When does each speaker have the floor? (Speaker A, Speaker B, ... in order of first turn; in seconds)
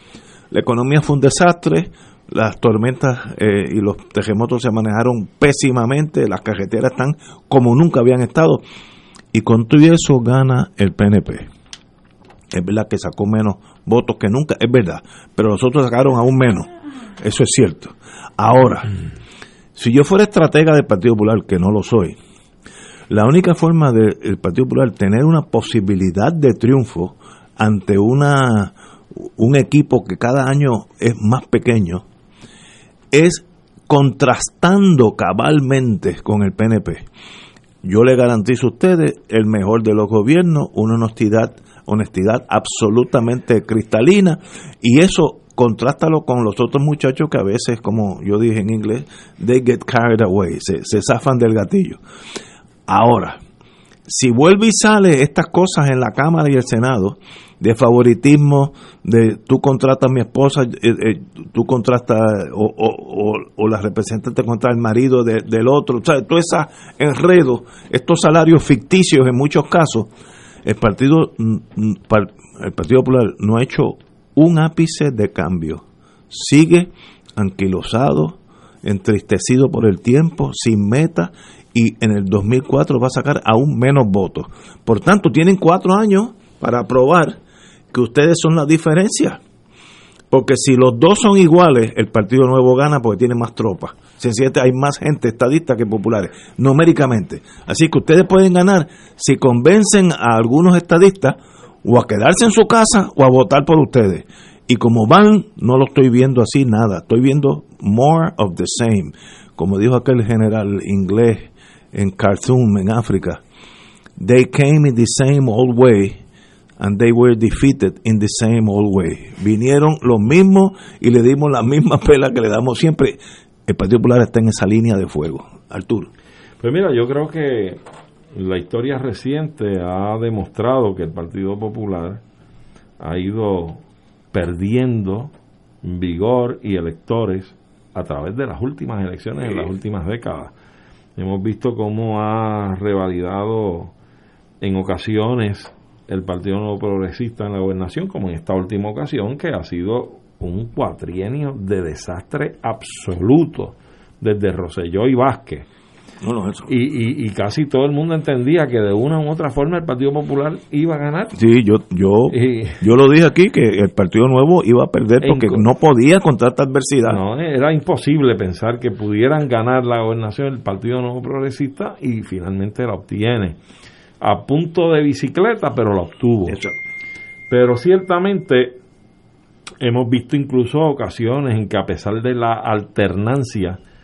Speaker A: 0.5-8.6, 9.3-11.5, 12.5-16.7, 17.2-18.9, 19.8-22.2, 23.1-32.0, 33.1-37.1, 37.8-52.0, 52.9-53.4, 54.1-70.1, 70.7-87.4, 87.9-89.4, 90.3-113.4, 114.2-116.2, 116.8-126.1, 156.2-156.7, 161.4-167.2, 176.5-176.8
Speaker B: 126.6-127.8, 128.3-132.2, 133.0-135.3, 135.8-140.5, 141.2-143.9, 144.6-155.7, 156.7-161.4, 162.3-162.8, 165.2-165.6, 167.1-173.6, 174.2-176.6, 177.5-178.8, 179.8-183.8